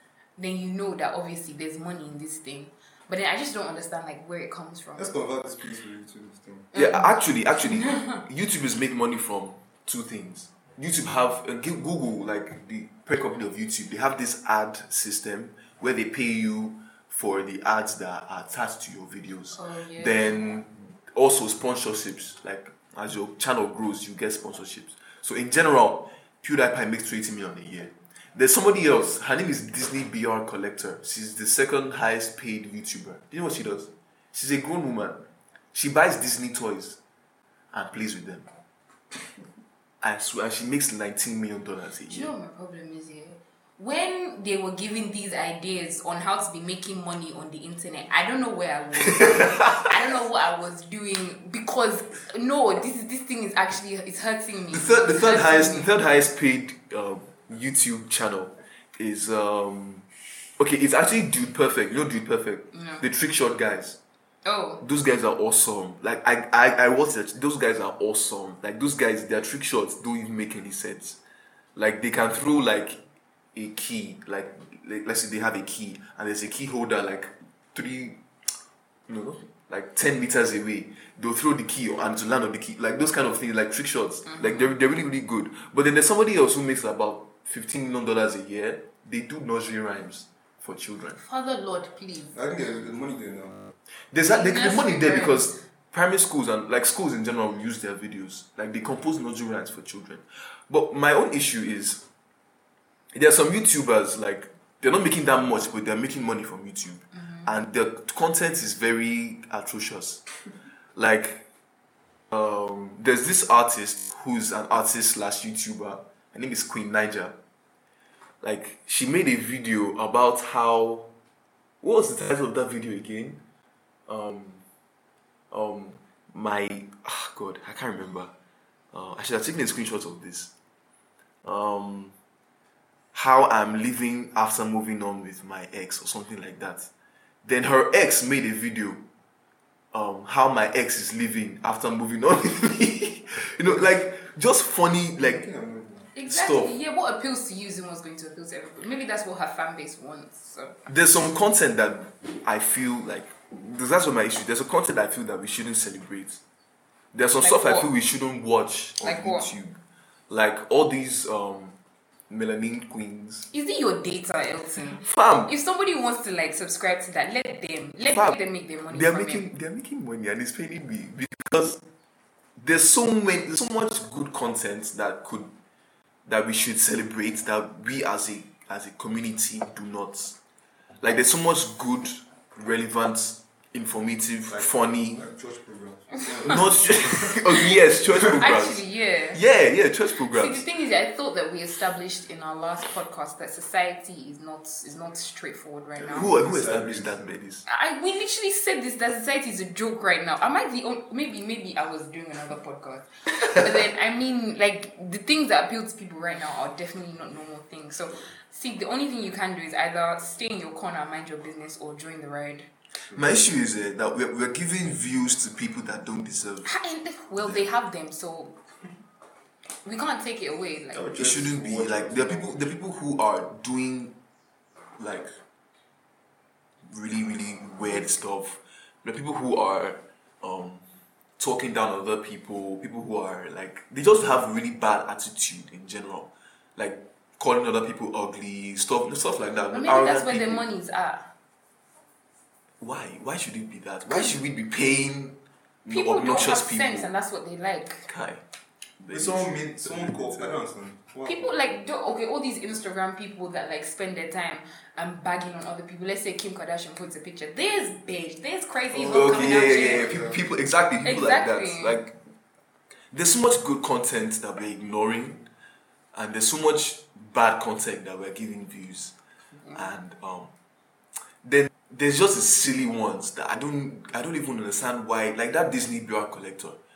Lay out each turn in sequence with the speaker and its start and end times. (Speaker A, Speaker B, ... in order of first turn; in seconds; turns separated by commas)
Speaker A: 0.4-5.1, Speaker B: 5.0-6.7, Speaker A: 6.7-7.0, Speaker C: 6.7-37.0, Speaker A: 7.8-8.2, Speaker A: 19.5-20.5, Speaker C: 37.7-38.5, Speaker C: 40.0-42.3, Speaker A: 42.1-55.9, Speaker C: 54.7-60.0, Speaker C: 60.6-64.0, Speaker A: 62.7-63.0, Speaker A: 64.5-64.8, Speaker C: 64.8-71.2, Speaker C: 71.7-73.0, Speaker C: 73.5-78.2, Speaker C: 79.1-91.2, Speaker A: 84.3-84.5, Speaker A: 91.1-92.4, Speaker B: 92.3-93.7, Speaker C: 94.1-102.0, Speaker A: 94.3-95.5, Speaker C: 103.1-110.2, Speaker A: 107.2-107.5, Speaker C: 111.0-111.5, Speaker C: 112.3-117.4, Speaker C: 118.4-121.1, Speaker C: 121.8-123.4, Speaker C: 124.1-124.6, Speaker C: 125.5-128.3, Speaker C: 128.9-130.5, Speaker C: 131.4-132.1, Speaker C: 133.1-136.9, Speaker C: 137.4-139.0, Speaker C: 139.9-145.4, Speaker B: 145.2-146.1, Speaker A: 146.1-150.8, Speaker C: 146.2-146.7, Speaker C: 150.9-156.4, Speaker C: 157.1-159.7, Speaker A: 157.4-157.9, Speaker A: 159.0-159.5, Speaker C: 160.3-161.8, Speaker C: 162.3-163.5, Speaker A: 163.5-169.5, Speaker C: 165.0-165.5, Speaker C: 168.1-168.4, Speaker C: 168.9-171.8, Speaker C: 172.6-175.5, Speaker C: 176.3-180.4, Speaker C: 181.0-185.2, Speaker B: 184.5-187.4, Speaker C: 186.4-190.6, Speaker A: 187.5-189.4, Speaker A: 190.3-196.3, Speaker B: 195.9-197.4, Speaker C: 196.1-197.6, Speaker A: 197.7-212.7, Speaker B: 213.1-213.4, Speaker C: 213.1-216.7, Speaker A: 216.6-218.6, Speaker A: 219.8-221.0, Speaker B: 220.9-222.7, Speaker C: 221.1-224.2, Speaker C: 225.0-225.3, Speaker C: 226.8-230.8, Speaker C: 231.4-240.7, Speaker A: 239.7-241.3, Speaker C: 242.8-247.1, Speaker A: 245.9-248.1, Speaker C: 248.1-248.4, Speaker C: 249.0-250.6, Speaker B: 249.1-251.5, Speaker A: 251.2-260.3, Speaker B: 258.9-260.4, Speaker C: 259.1-262.2, Speaker A: 261.0-262.0, Speaker C: 263.1-265.4, Speaker C: 266.1-269.1, Speaker C: 269.7-270.5, Speaker C: 271.4-276.8